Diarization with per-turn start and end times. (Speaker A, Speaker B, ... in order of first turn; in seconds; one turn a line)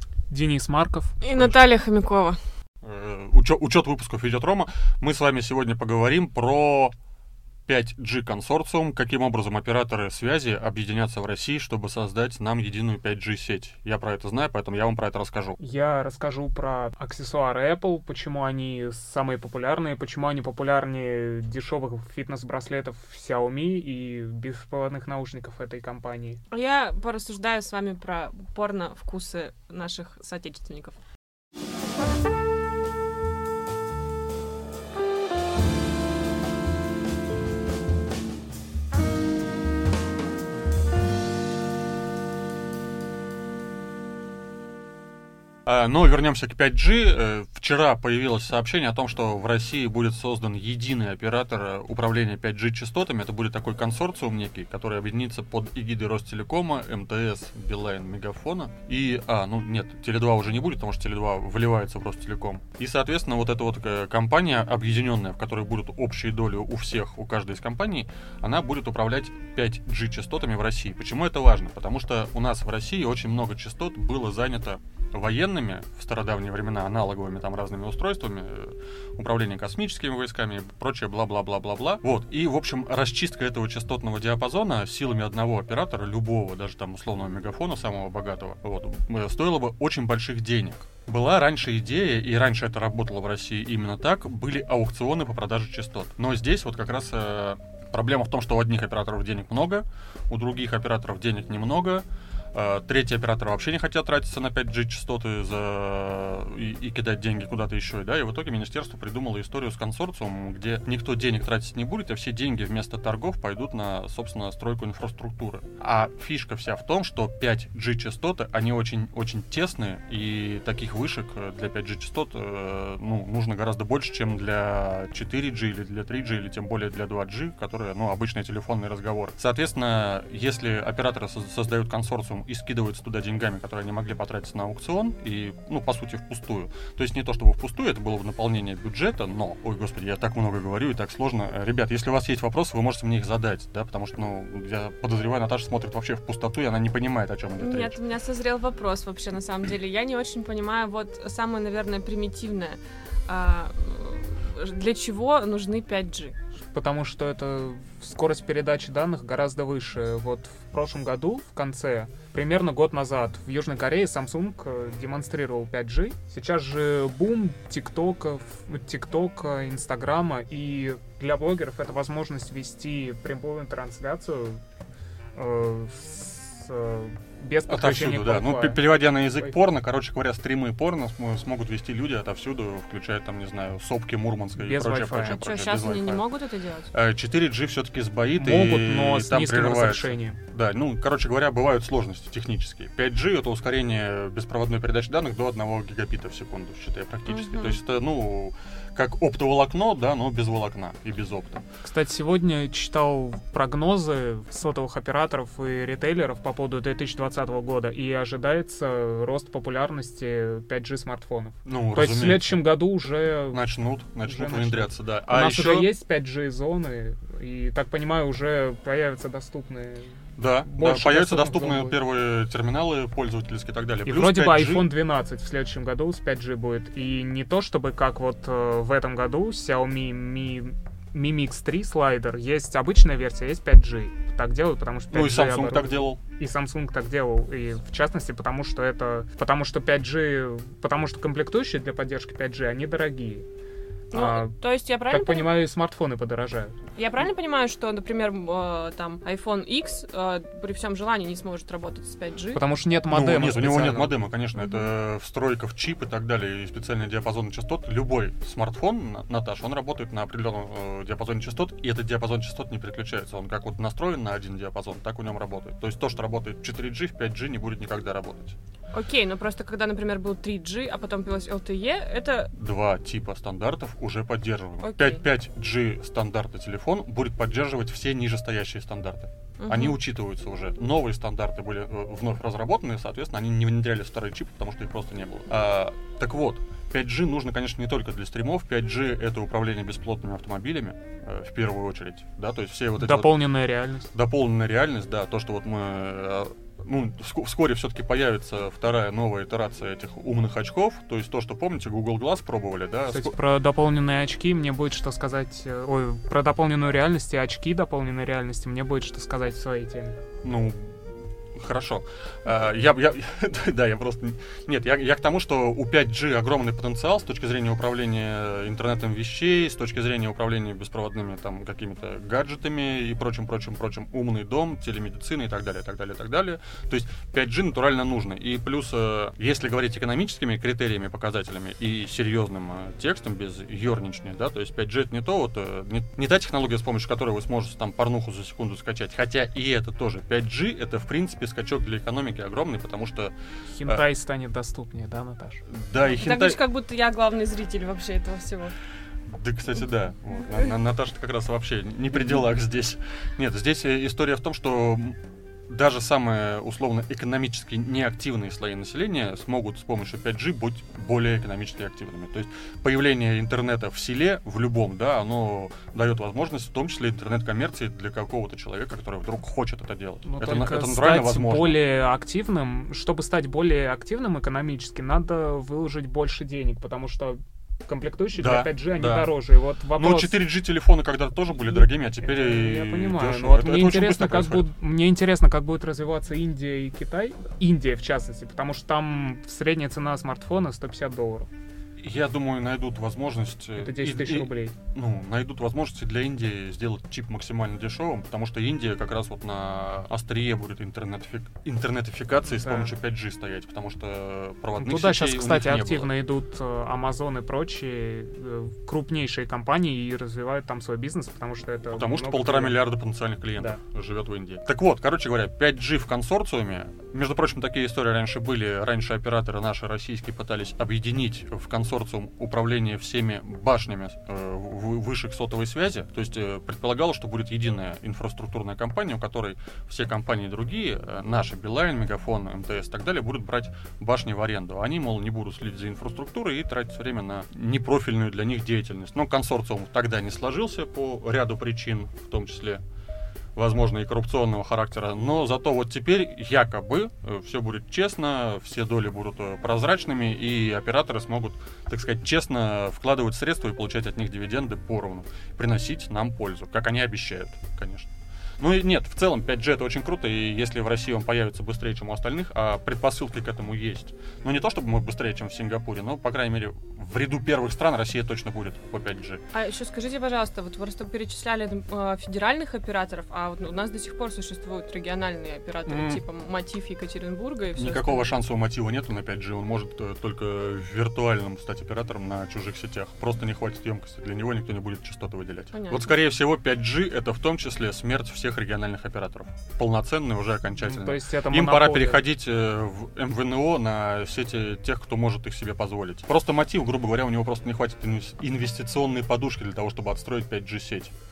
Speaker A: 0.3-1.6
Speaker B: 1.2-2.4
Speaker C: 2.8-6.9
Speaker C: 7.7-15.6
Speaker A: 15.6-26.4
Speaker B: 26.5-30.9
Speaker C: 45.6-147.9
Speaker B: 147.6-156.3
Speaker A: 156.7-174.6
Speaker A: 175.3-178.8
Speaker C: 177.7-186.2
Speaker A: 184.6-185.4
Speaker B: 185.2-186.9
Speaker C: 186.9-201.6
Speaker A: 188.3-190.4
Speaker B: 197.3-197.8
Speaker A: 201.8-213.6
Speaker C: 211.6-212.6
Speaker C: 213.5-215.9
Speaker A: 214.2-222.0
Speaker C: 220.4-224.9
Speaker A: 224.1-243.4
Speaker C: 235.1-236.2
Speaker A: 244.1-244.5
Speaker B: 244.1-245.5
Speaker A: 245.1-246.8
Speaker B: 246.9-252.6
Speaker A: 252.5-254.2
Speaker C: 253.1-268.6
Speaker B: 254.6-254.9
Speaker B: 268.9-272.5
Speaker C: 272.5-293.4
Speaker B: 274.8-275.2
Speaker B: 279.6-280.0
Speaker A: 293.0-294.1
Speaker C: 294.1-303.3
Speaker A: 303.1-310.2
Speaker C: 310.4-343.3
Speaker A: 343.7-345.6
Speaker C: 345.6-346.6
Speaker B: 346.1-348.8
Speaker C: 349.3-371.8
Speaker A: 370.2-380.4
Speaker C: 378.3-379.3
Speaker C: 379.9-384.7
Speaker A: 381.6-391.5
Speaker C: 392.0-406.1
Speaker A: 393.8-394.8
Speaker A: 402.5-402.9
Speaker A: 404.8-412.8
Speaker C: 411.9-442.8
Speaker C: 443.6-469.4
Speaker B: 469.5-478.3
Speaker C: 475.9-476.2
Speaker C: 477.7-501.1
Speaker B: 485.7-486.2
Speaker A: 490.8-492.2